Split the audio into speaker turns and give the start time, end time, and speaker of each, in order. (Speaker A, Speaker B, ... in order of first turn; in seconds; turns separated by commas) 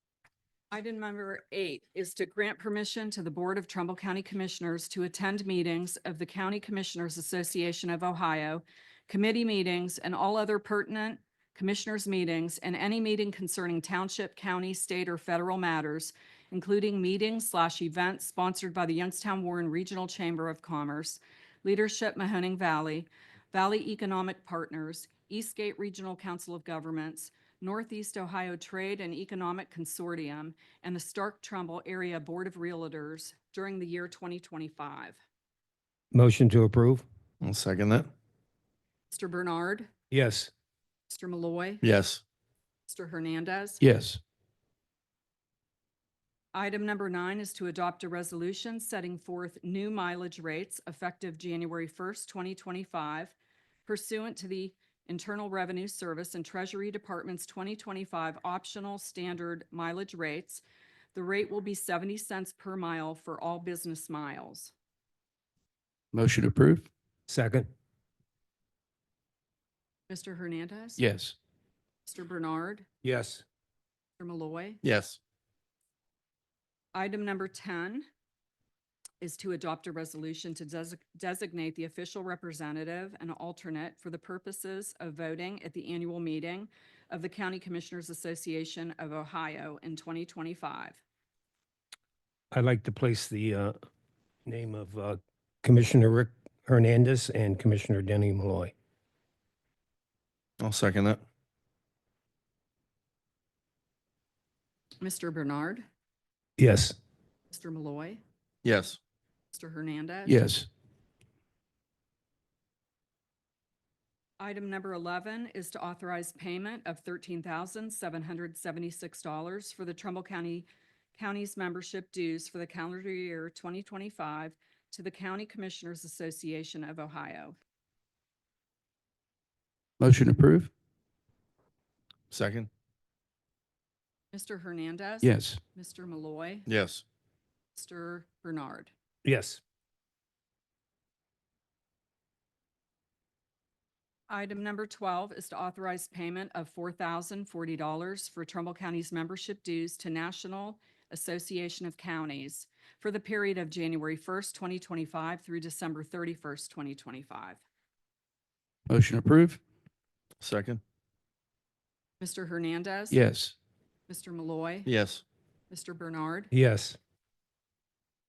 Speaker A: 0.7-35.2, Speaker B: 36.1-37.0, Speaker C: 37.4-38.1, Speaker A: 39.1-39.9, Speaker B: 40.1-40.5, Speaker A: 41.1-41.8, Speaker C: 41.8-42.2, Speaker A: 42.9-43.8, Speaker D: 43.8-44.2, Speaker A: 46.5-53.3, Speaker A: 53.9-60.6, Speaker A: 61.1-64.7, Speaker D: 66.1-66.9, Speaker B: 67.3-67.7, Speaker A: 70.1-71.0, Speaker D: 71.0-71.3, Speaker A: 72.0-72.8, Speaker B: 73.0-73.4, Speaker A: 74.2-74.8, Speaker C: 74.8-75.2, Speaker A: 76.9-78.0, Speaker A: 79.2-91.0, Speaker B: 92.5-93.7, Speaker B: 94.5-98.7, Speaker C: 100.6-101.2, Speaker A: 105.0-105.8, Speaker B: 106.6-107.0, Speaker A: 107.5-108.2, Speaker C: 108.6-109.0, Speaker A: 109.5-110.4, Speaker D: 110.2-110.7, Speaker A: 114.4-127.5, Speaker D: 130.0-130.7, Speaker C: 132.3-132.7, Speaker A: 134.3-136.7, Speaker D: 135.2-135.6, Speaker C: 136.7-137.0, Speaker A: 137.7-138.9, Speaker B: 139.2-139.6, Speaker A: 144.3-157.6, Speaker D: 158.9-159.6, Speaker C: 160.4-160.8, Speaker A: 162.2-163.2, Speaker D: 163.1-163.5, Speaker A: 164.1-164.9, Speaker C: 164.8-165.2, Speaker A: 165.7-166.5, Speaker B: 166.5-167.0